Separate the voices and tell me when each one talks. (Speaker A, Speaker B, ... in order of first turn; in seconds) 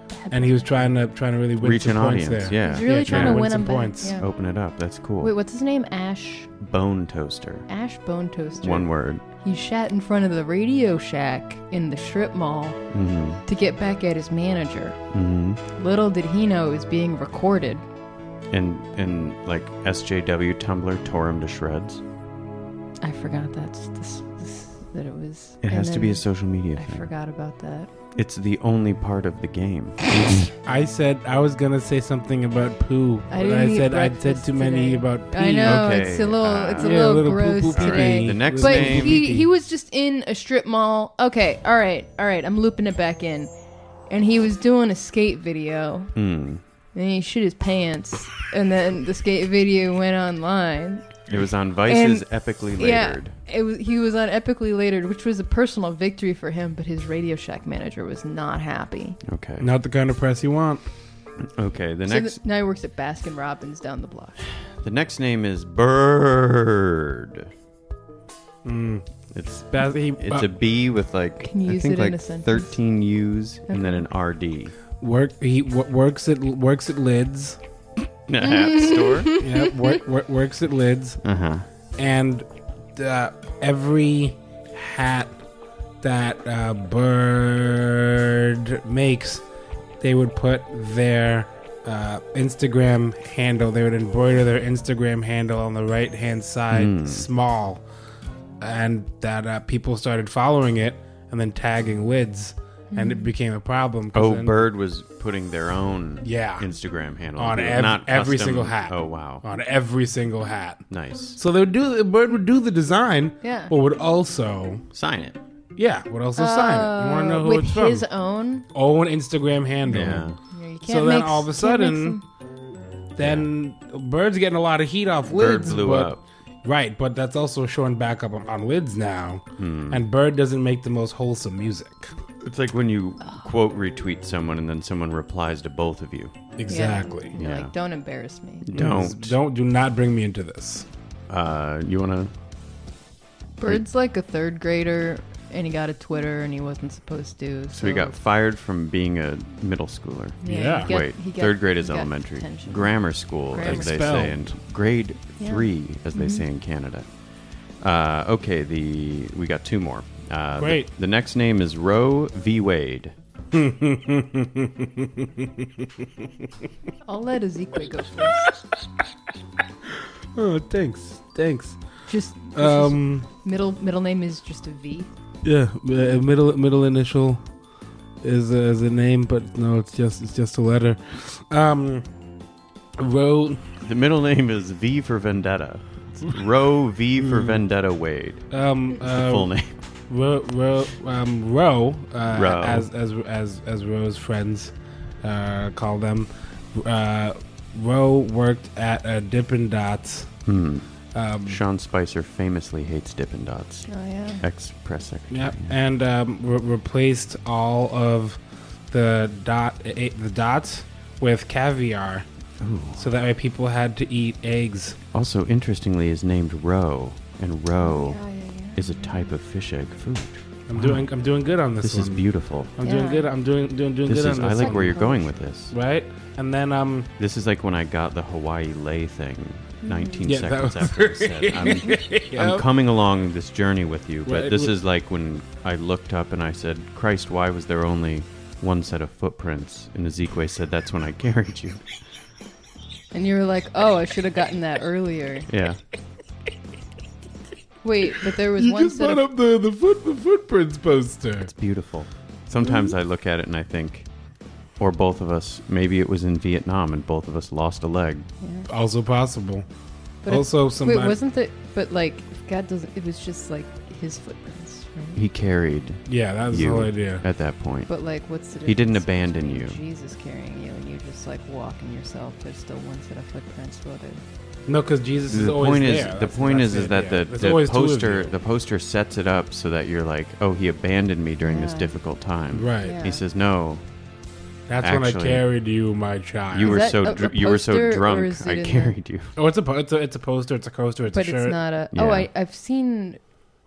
Speaker A: 0.1-0.6, 2.6-4.3, 5.2-6.5, 7.7-12.8, 13.5-15.0, 15.8-17.8, 23.0-27.9, 33.3-43.5, 44.1-46.1, 46.9-51.2, 51.9-59.2, 62.0-64.4, 71.4-72.7, 73.7-74.1, 78.4-80.0, 102.9-103.3, 113.4-113.7, 116.3-118.7, 120.0-122.2, 136.7-138.7, 143.6-148.1, 150.4-152.9, 153.5-154.2, 155.4-156.4, 167.0-168.5, 172.1-175.1, 203.9-204.4, 217.8-219.3, 222.8-223.3, 224.6-225.3, 229.8-230.2, 243.1-245.5, 247.8-249.2, 258.4-258.7, 260.2-265.2, 267.9-274.2, 281.4-281.9, 282.8-283.2, 286.6-288.9, 291.1-293.2
Speaker B: 0.3-4.2, 30.6-36.1, 36.8-39.5, 59.6-60.9, 68.6-69.0, 69.7-70.5, 75.0-77.6, 79.4-81.2, 82.0-85.4, 86.0-89.4, 90.0-97.8, 98.6-104.6, 106.2-106.7, 107.3-110.8, 111.4-114.8, 115.8-118.0, 118.7-120.3, 120.8-122.2, 123.2-132.1, 136.6-137.3, 138.7-140.9, 150.4-150.9, 153.6-154.4, 160.6-160.9, 163.5-166.5, 169.9-171.8, 172.5-173.3, 175.4-177.4, 178.2-182.1, 183.0-183.7, 187.2-187.6, 188.5-189.5, 190.1-200.3, 201.1-201.6, 205.3-208.4, 208.9-212.3, 212.9-215.0, 220.7-225.1, 225.7-227.1, 230.2-232.7, 234.2-234.7, 248.2-251.5, 258.7-259.6, 260.3-261.2, 266.1-267.2, 274.7-278.3, 282.5-283.0, 284.7-286.9, 289.4-291.6
Speaker C: 1.6-3.5, 4.2-5.3, 6.6-7.7, 8.6-9.2, 12.9-13.4, 15.1-15.6, 18.5-22.0, 25.6-27.1, 28.1-30.5, 35.6-39.2, 46.1-46.6, 51.3-53.3, 59.2-59.7, 61.5-62.4, 64.6-67.5, 69.3-74.7, 78.3-79.3, 81.2-81.7, 96.7-97.3, 104.1-109.4, 110.9-111.4, 114.9-115.4, 119.9-120.4, 123.2-123.5, 125.3-126.2, 129.6-130.0, 132.4-136.3, 137.3-137.7, 138.6-139.4, 141.3-142.3, 147.7-157.1, 157.8-163.1, 183.8-188.4, 189.0-189.7, 192.3-192.9, 200.4-200.8, 201.4-203.9, 204.4-205.7, 212.6-213.1, 215.1-218.2, 218.7-221.0, 221.8-222.7, 224.1-225.7, 227.2-241.8, 245.5-245.8, 251.4-254.1, 254.8-258.3, 265.1-267.9, 268.6-269.8, 275.3-283.8, 284.8-285.5, 286.5-289.3, 291.9-292.3